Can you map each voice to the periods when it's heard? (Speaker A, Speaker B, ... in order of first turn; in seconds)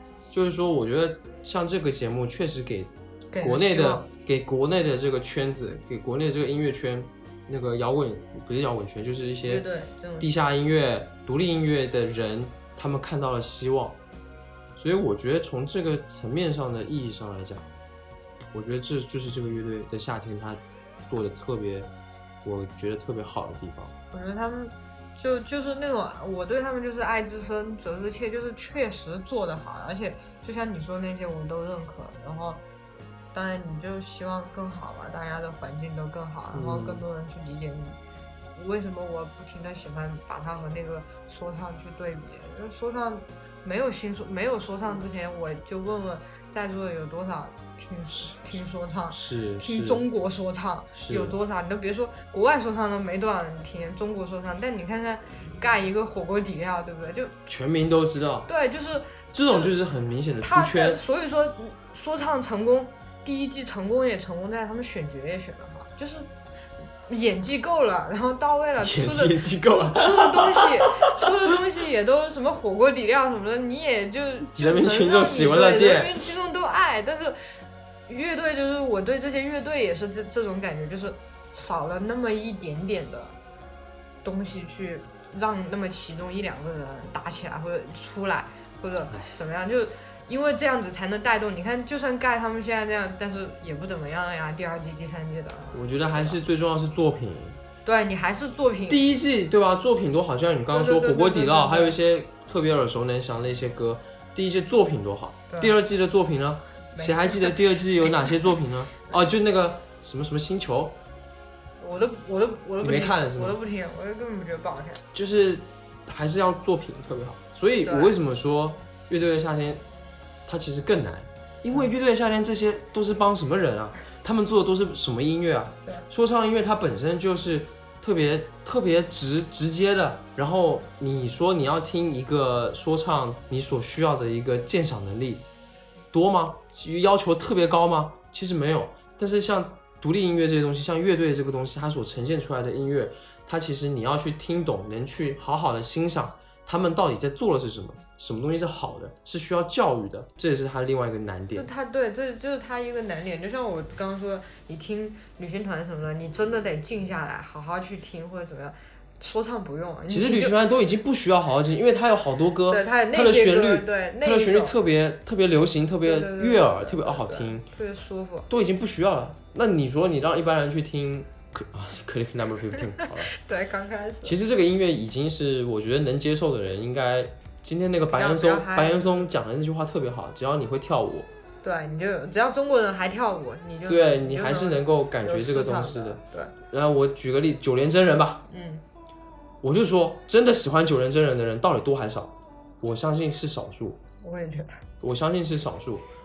Speaker A: 0.3-9.7, 10.2-14.0, 14.8-17.7, 18.5-21.9, 22.4-23.9, 36.5-37.1, 48.1-50.0, 50.9-51.4, 57.5-58.5, 59.3-61.0, 68.8-71.3, 74.5-76.2, 95.7-97.6, 98.9-111.0, 112.8-113.6, 115.1-119.8, 120.5-135.4, 136.1-151.7, 160.1-167.7, 168.5-173.3, 174.2-181.3, 183.8-188.4, 189.6-194.0, 195.0-196.1
Speaker B: 3.3-4.1, 9.4-10.3, 24.1-32.6, 33.3-38.0, 38.5-57.3, 58.5-59.7, 60.4-66.3, 67.0-77.4, 78.1-83.3, 84.2-96.4, 97.8-99.0, 100.7-102.0, 105.5-105.8, 106.9-107.6, 111.8-115.0, 117.8-118.2, 151.5-160.6, 162.7-164.7, 166.0-168.5, 173.0-174.3, 178.1-179.2, 181.6-186.5, 188.5-188.8, 194.2-194.8